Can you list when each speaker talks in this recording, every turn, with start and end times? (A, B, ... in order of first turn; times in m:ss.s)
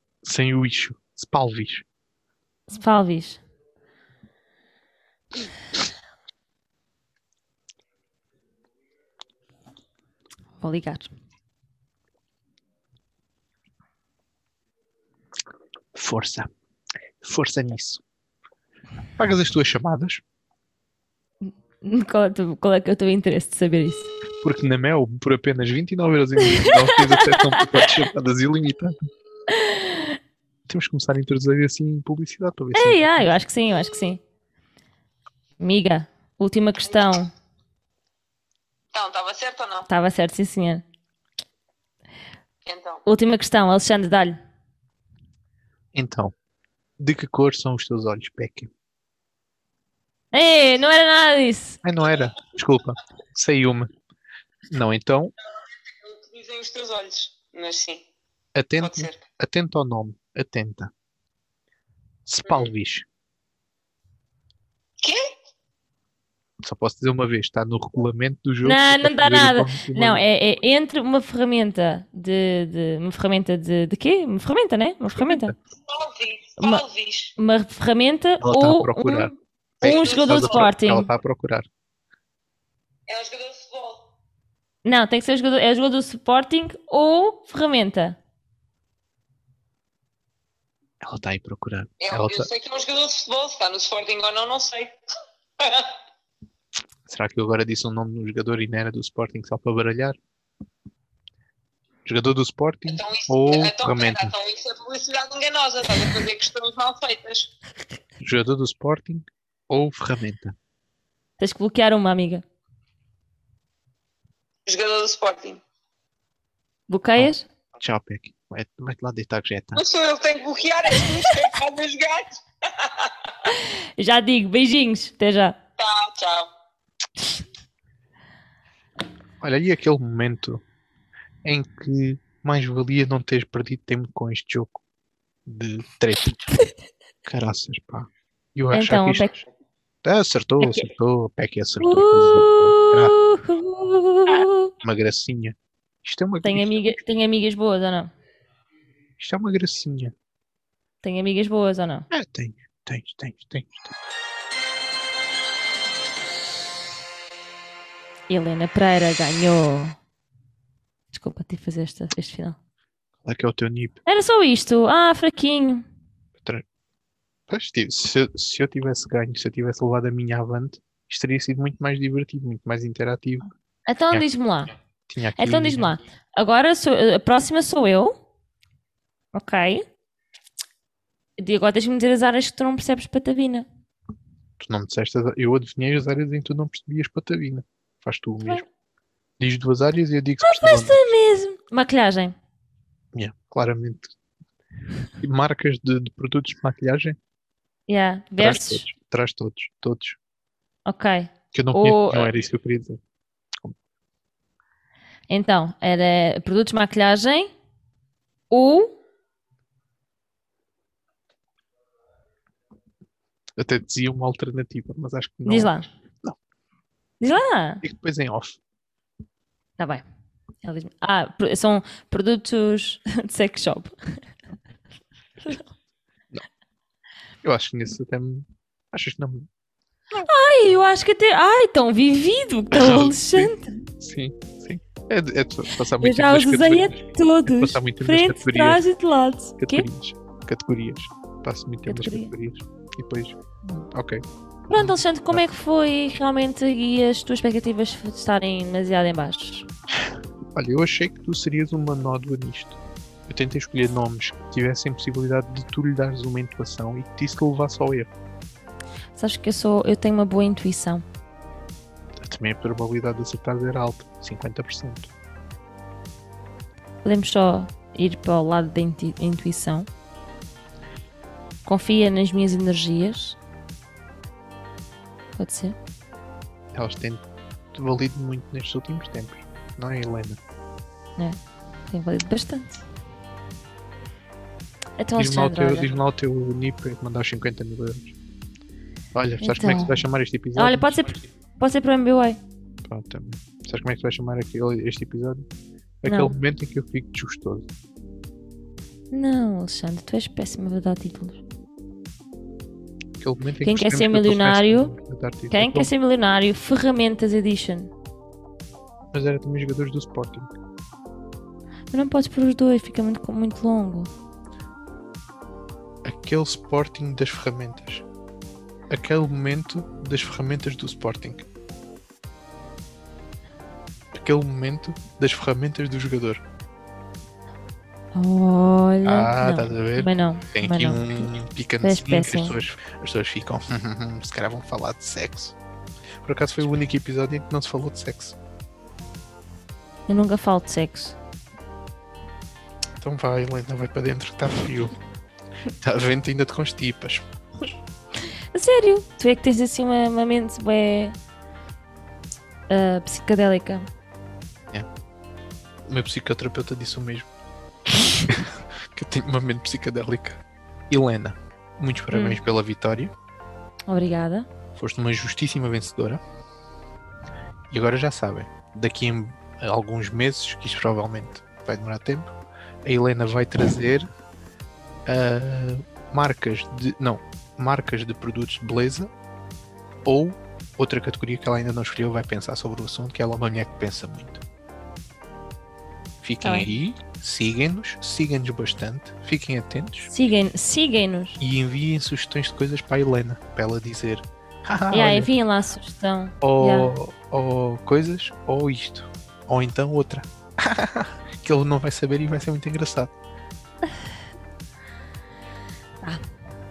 0:00.2-0:01.8 A
0:02.7-0:03.4 B
0:10.6-0:11.1 B
0:15.9-0:16.5 A
0:17.2-0:18.0 A
0:19.2-0:20.2 A
0:21.4-0:24.1 B
0:24.4-0:28.9 A
0:26.6-0:27.6 B
0:29.5-0:30.2 B
0:30.7-0:33.3 A
0:32.7-0:34.2 B
0:35.6-0:37.3 B
0:38.9-0:39.9 C
0:39.9-0:40.8 B
0:42.6-0:43.0 C
0:43.0-0:44.4 B
0:45.9-0:46.3 A
0:47.0-0:48.7 A
0:50.3-0:51.8 B
0:51.8-0:53.9 A
0:54.7-0:55.3 A
0:55.9-0:58.0 C
0:58.5-1:00.9 A
0:58.8-0:59.2 C
1:02.2-1:03.0 A
1:05.0-1:05.3 C
1:06.6-1:10.2 A
1:08.6-1:15.5 B
1:15.2-1:15.5 A
1:15.7-1:17.3 C
1:16.6-1:16.8 B
1:17.4-1:21.1 B
1:18.4-1:21.7 A
1:19.8-1:20.7 C
1:23.1-1:24.1 C
1:24.8-1:28.2 B
1:31.0-1:32.5 A
1:32.0-1:35.0 C
1:35.6-1:36.0 C
1:37.1-1:40.2 A
1:42.0-1:44.3 A
1:42.9-1:47.5 C
1:48.2-1:50.5 A
1:51.4-1:52.4 B
1:54.6-1:55.6 C
1:56.9-1:57.4 B
1:57.2-1:59.8 A
1:59.8-2:03.3 C
2:01.0-2:01.3 B
2:03.5-2:05.6 B
2:05.8-2:06.5 C
2:09.4-2:10.6 A
2:11.4-2:14.8 A
2:15.5-2:16.5 A
2:17.2-2:19.3 A
2:18.7-2:19.4 B
2:20.0-2:23.2 A
2:20.6-2:20.9 B
2:21.8-2:24.7 B
2:24.8-2:26.8 A
2:26.4-2:28.1 B
2:29.2-2:30.1 A
2:31.0-2:32.1 B
2:32.1-2:33.9 A
2:38.3-2:40.0 B
2:41.1-2:42.6 B
2:43.2-2:44.0 A
2:44.0-2:45.8 B
2:46.4-2:46.6 A
2:47.5-2:53.5 A
2:53.9-2:54.7 B
2:55.1-2:55.9 A
2:55.4-2:58.1 B
2:59.3-2:59.8 B
3:01.4-3:03.6 B
3:04.6-3:08.6 A
3:09.4-3:11.1 A
3:10.4-3:12.3 B
3:13.1-3:14.1 A
3:15.2-3:17.2 A
3:17.9-3:18.8 B
3:18.4-3:20.2 A
3:20.8-3:22.3 B
3:21.5-3:23.0 A
3:25.3-3:27.5 B
3:28.5-3:29.0 B
3:33.6-3:36.4 A
3:35.5-3:35.9 B
3:37.2-3:37.8 B
3:37.8-3:38.6 A
3:40.6-3:44.0 B
3:45.4-3:45.7 B
3:47.4-3:49.5 A
3:50.2-3:53.8 B
3:52.7-3:58.8 A
3:56.0-3:59.8 B
3:59.6-4:05.4 A
4:01.9-4:02.3 B
4:04.7-4:09.7 B
4:10.0-4:18.1 A
4:19.2-4:21.0 B
4:22.2-4:25.1 A
4:27.0-4:29.9 B
4:31.6-4:33.4 B
4:35.4-4:35.8 B
4:36.7-4:40.4 A
4:41.9-4:42.8 B
4:45.0-4:46.0 B
4:45.2-4:48.1 A
4:49.1-4:51.0 A
4:49.4-4:50.0 B
4:50.6-4:52.4 B
4:52.8-4:55.5 A
4:56.0-4:57.7 A
4:56.0-4:56.3 B
4:59.1-5:01.4 B
5:03.2-5:05.9 A
5:03.6-5:04.9 B
5:05.5-5:07.9 B
5:09.1-5:10.5 A
5:11.9-5:14.1 B
5:16.0-5:18.0 A
5:18.9-5:21.5 A
5:24.1-5:26.4 A
5:28.1-5:31.3 B
5:29.0-5:35.6 A
5:31.8-5:32.6 B
5:36.2-5:38.4 A
5:40.1-5:41.2 B
5:43.0-5:45.0 A
5:45.7-5:47.2 A
5:48.5-5:51.1 B
5:52.7-5:53.8 B
5:55.8-5:57.3 A
5:58.2-6:03.1 A
6:02.1-6:02.4 B
6:03.9-6:04.5 B
6:04.8-6:06.2 A
6:07.7-6:12.3 A
6:12.8-6:14.1 A
6:15.0-6:19.1 A
6:20.0-6:24.4 A
6:26.2-6:30.1 A
6:26.4-6:26.7 B
6:30.1-6:31.4 B
6:31.4-6:35.3 A
6:34.9-6:36.9 B
6:36.4-6:43.1 A